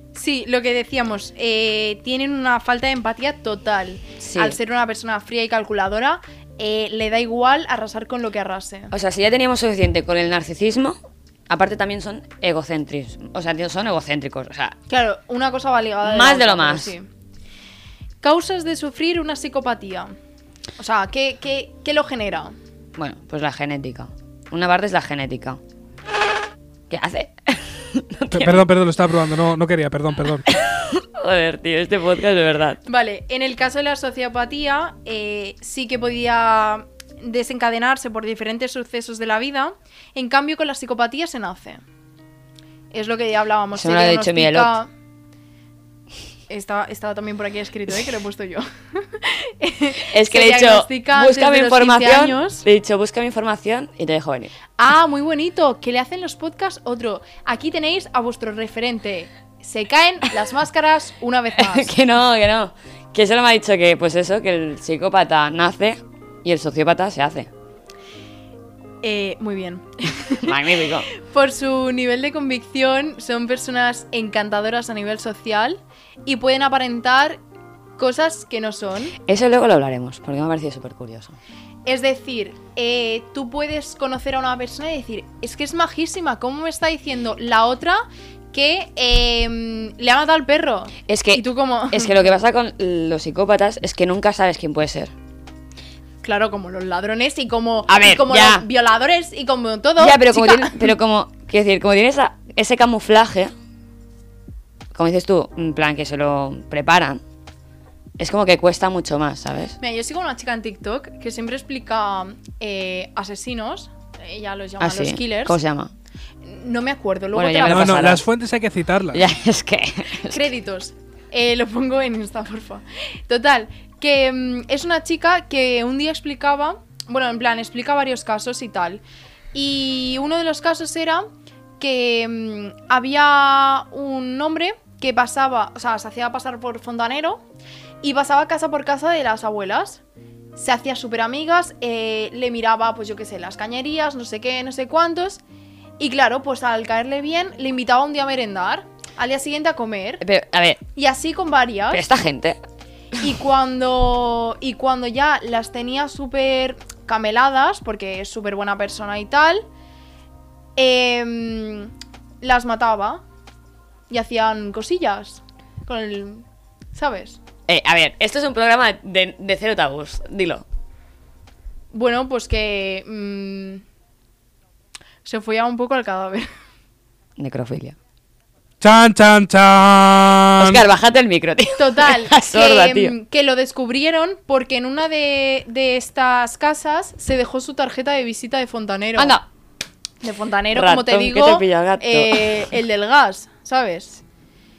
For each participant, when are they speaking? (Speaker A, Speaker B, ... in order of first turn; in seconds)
Speaker A: 0.1-8.9, 14.9-17.1, 18.2-20.1, 20.8-22.5, 32.9-41.8, 42.9-44.9, 46.5-52.6, 54.8-61.9, 69.0-70.5, 71.1-77.4, 78.0-79.2, 81.8-92.3, 96.2-100.9, 109.8-115.6, 116.4-118.2, 120.2-129.0, 129.5-137.4, 138.0-140.0, 140.6-145.4, 146.0-150.2, 150.9-152.0, 153.2-159.6, 160.8-163.2, 164.1-167.4, 171.9-173.8, 175.2-176.5, 181.8-189.4, 190.2-194.2
Speaker B: 4.2-4.6, 8.9-11.0, 11.5-14.8, 16.0-16.9, 23.0-25.6, 26.9-28.6, 30.5-32.8, 43.7-44.8, 50.1-54.5, 61.6-67.5, 70.4-71.1, 79.2-81.4, 91.1-95.1, 97.9-98.7, 100.0-103.5, 104.9-107.2, 108.2-109.8, 114.8-115.9, 117.3-118.2, 119.1-120.5, 150.2-150.8, 151.9-152.6, 167.7-170.6, 177.4-177.9, 180.6-183.1, 189.2-189.4, 190.7-192.7
Speaker C: 28.3-30.5, 117.7-119.3, 178.8-180.8